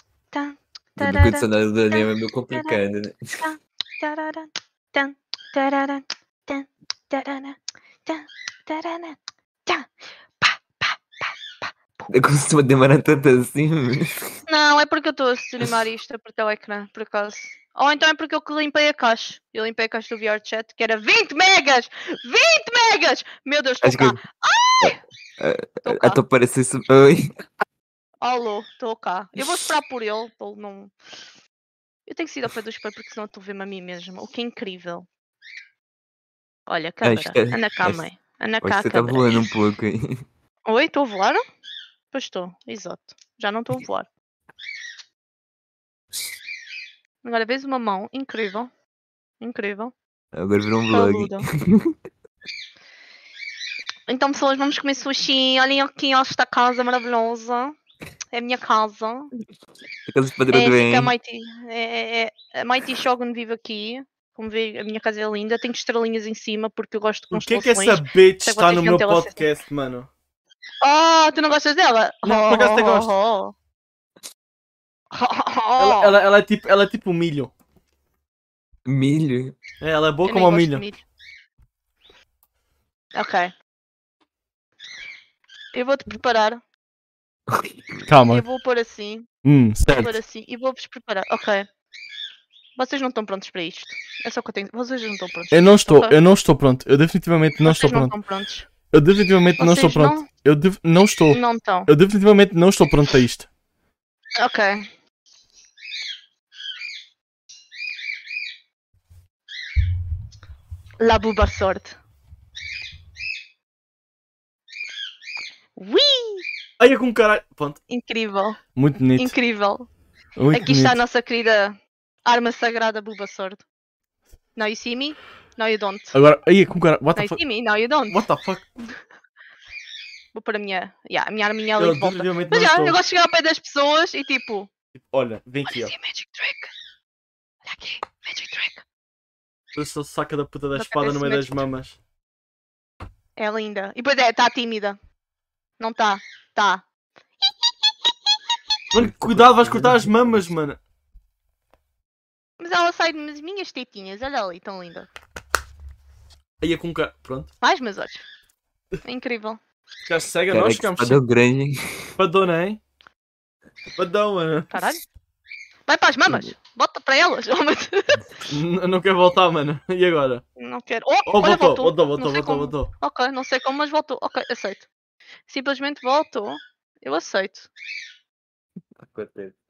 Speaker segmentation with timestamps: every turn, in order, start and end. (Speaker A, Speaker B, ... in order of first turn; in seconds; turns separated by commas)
Speaker A: 0.3-2.8, Speaker B: 1.0-3.5, Speaker A: 3.4-9.9, Speaker A: 10.4-12.1, Speaker B: 12.1-14.4, Speaker A: 14.5-25.0, Speaker B: 23.8-24.2, Speaker B: 24.8-27.5, Speaker A: 25.8-26.2, Speaker A: 28.2-30.9, Speaker A: 32.1-35.0, Speaker A: 36.7-39.5, Speaker B: 37.0-38.0, Speaker B: 38.6-40.2, Speaker A: 40.6-41.4, Speaker A: 42.1-44.1, Speaker A: 47.2-48.7, Speaker A: 49.4-49.9, Speaker B: 50.3-51.9, Speaker A: 50.9-51.5, Speaker A: 54.1-57.8, Speaker A: 58.3-59.3, Speaker B: 60.1-61.1, Speaker A: 60.5-69.4, Speaker C: 67.3-70.1, Speaker A: 70.8-73.5, Speaker C: 72.2-73.1, Speaker A: 75.1-76.1, Speaker C: 75.8-77.5, Speaker B: 78.8-79.5, Speaker C: 79.8-80.8, Speaker A: 80.2-81.0, Speaker A: 83.1-83.5, Speaker A: 85.7-86.6, Speaker B: 87.5-88.0, Speaker C: 88.0-88.4, Speaker A: 88.2-89.3, Speaker C: 89.4-90.2, Speaker A: 89.9-91.7, Speaker A: 92.8-96.2, Speaker C: 95.5-98.1, Speaker A: 97.6-98.7, Speaker C: 98.9-103.5, Speaker A: 99.6-100.2, Speaker A: 101.3-101.9, Speaker A: 104.4-104.9, Speaker A: 111.0-112.0, Speaker A: 115.8-116.5, Speaker C: 116.8-117.8, Speaker A: 117.9-118.6, Speaker C: 118.8-119.3, Speaker A: 119.2-119.9, Speaker C: 120.4-121.0, Speaker A: 120.5-123.6, Speaker A: 124.5-126.2, Speaker C: 126.1-127.4, Speaker A: 127.2-128.2, Speaker C: 128.1-128.7, Speaker A: 130.3-134.7, Speaker C: 131.8-133.0, Speaker C: 134.9-135.9, Speaker A: 135.7-136.7, Speaker A: 137.6-138.8, Speaker C: 139.7-141.9, Speaker A: 140.7-141.6, Speaker A: 143.4-145.0, Speaker A: 145.8-146.8, Speaker A: 147.4-148.1, Speaker C: 148.9-150.8, Speaker B: 148.9-150.4, Speaker A: 152.6-155.1, Speaker C: 156.6-157.5, Speaker A: 157.6-158.2, Speaker A: 159.0-159.6, Speaker C: 160.1-161.2, Speaker B: 160.5-162.1, Speaker C: 162.2-162.8, Speaker C: 163.9-164.8, Speaker A: 164.7-165.0, Speaker A: 165.9-168.3, Speaker C: 168.5-170.4, Speaker A: 170.6-174.9, Speaker C: 171.3-172.9, Speaker A: 175.5-177.7, Speaker B: 179.0-179.6